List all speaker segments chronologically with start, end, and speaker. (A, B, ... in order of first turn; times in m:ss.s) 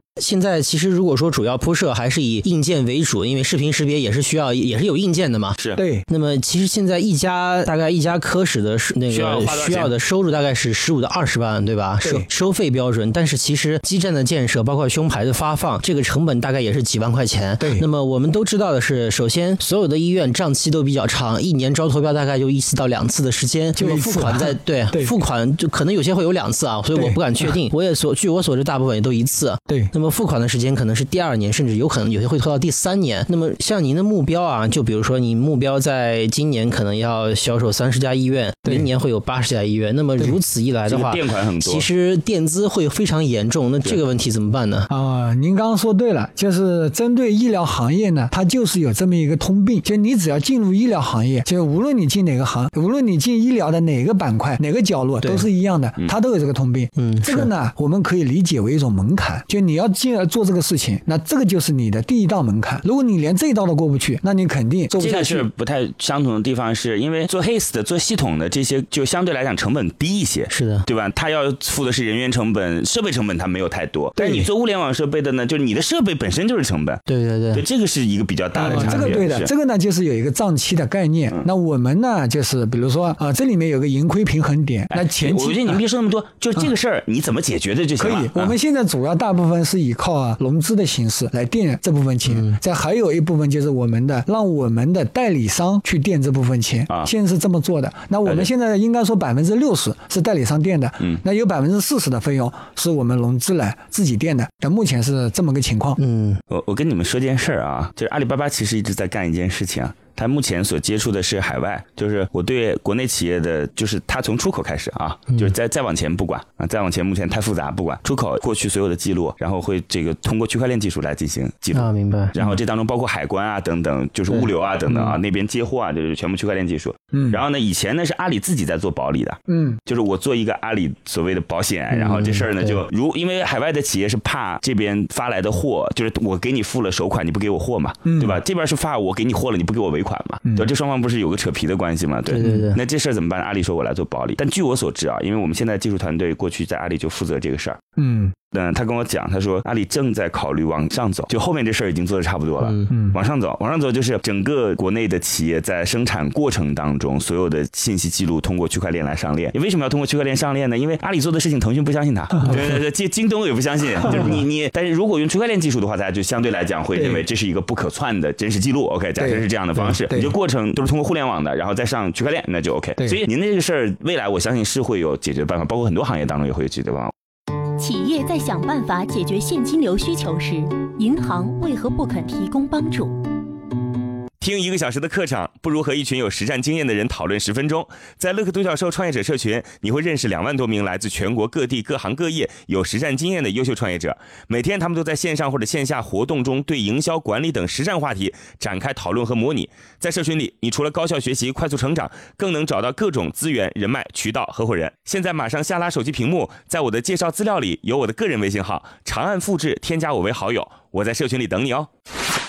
0:00.2-0:44.9 A
0:05.6-0:05.8 B
0:05.8-0:06.1 C
0:09.1-0:09.9 B
0:12.0-0:12.3 C
0:17.6-0:17.9 C
0:23.8-0:25.2 C
0:26.9-0:27.6 C
0:29.7-0:29.9 C
0:38.6-0:38.9 C
0:40.9-0:41.9 B
0:44.9-1:05.5 C
0:55.2-0:55.5 A
0:57.0-0:57.5 A
1:05.0-1:19.5 B
1:10.5-1:10.9 A
1:14.2-1:14.5 C
1:17.1-1:17.6 A
1:18.5-1:25.8 C
1:24.9-1:28.6 B
1:28.0-1:46.0 C
1:32.3-1:32.6 A
1:38.2-1:38.5 B
1:46.0-1:46.4 A
1:46.5-2:27.8 B
2:01.7-2:02.3 A
2:07.1-2:07.4 C
2:09.5-2:09.8 C
2:11.9-2:12.7 A
2:18.1-2:18.4 C
2:22.3-2:22.8 A
2:22.4-2:22.7 C
2:28.0-2:28.4 C
2:28.5-2:57.1 B
2:32.6-2:32.9 A
2:32.9-2:33.2 C
2:46.9-2:47.3 C
2:49.2-2:50.3 C
2:57.8-3:03.2 D
3:04.4-3:31.9 B